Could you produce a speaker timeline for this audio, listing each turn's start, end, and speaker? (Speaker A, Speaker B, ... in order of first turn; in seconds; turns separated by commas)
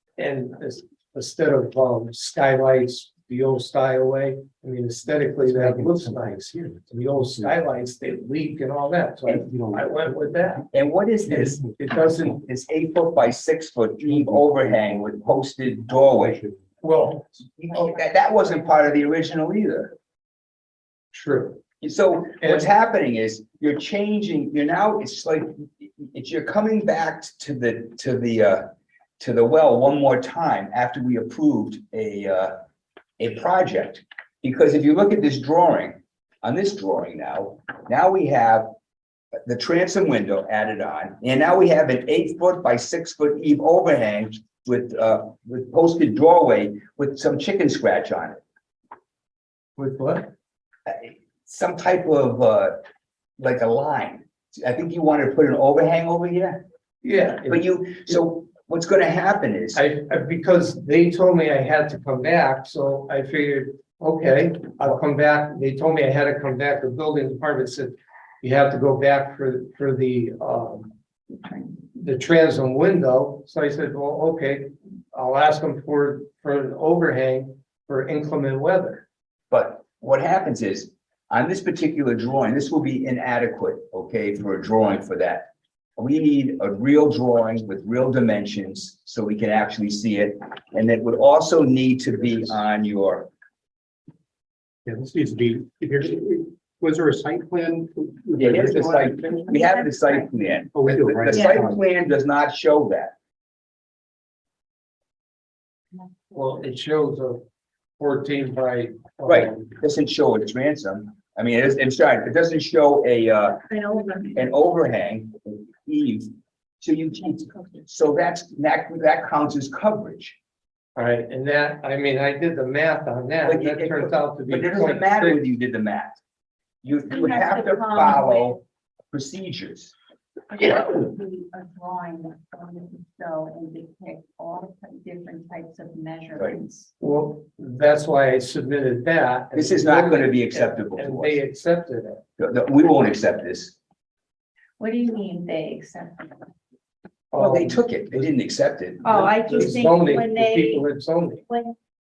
Speaker A: 0.2-10.7, Speaker B: 5.5-7.6, Speaker B: 9.3-10.2, Speaker C: 10.7-16.4, Speaker B: 11.3-11.7, Speaker A: 11.6-12.4, Speaker B: 14.1-15.0, Speaker B: 15.9-16.6, Speaker A: 16.8-17.3, Speaker C: 17.6-19.9, Speaker A: 21.1-21.6, Speaker C: 21.8-32.5, Speaker A: 22.4-22.6, Speaker C: 33.2-38.7, Speaker C: 39.5-48.4, Speaker A: 49.8-50.3, Speaker C: 50.9-52.8, Speaker C: 53.4-56.6, Speaker A: 57.0-58.1, Speaker C: 57.5-59.8, Speaker A: 59.7-70.9, Speaker A: 71.9-79.0, Speaker C: 79.5-93.3, Speaker B: 94.8-99.5, Speaker C: 98.4-103.1, Speaker D: 99.5-100.3, Speaker B: 100.7-101.8, Speaker D: 101.3-101.6, Speaker A: 106.3-107.4, Speaker A: 108.0-109.8, Speaker C: 109.2-113.7, Speaker D: 113.7-114.4, Speaker C: 114.3-120.3, Speaker A: 121.0-125.5, Speaker C: 123.4-126.2, Speaker C: 126.8-128.6, Speaker D: 127.1-128.6, Speaker C: 129.1-129.9, Speaker D: 130.5-136.9, Speaker A: 137.0-142.2, Speaker C: 139.5-141.4, Speaker C: 142.4-143.8, Speaker D: 144.8-146.5, Speaker A: 147.3-147.8, Speaker C: 147.3-149.3, Speaker D: 149.0-150.8, Speaker A: 149.1-151.4, Speaker D: 151.5-151.7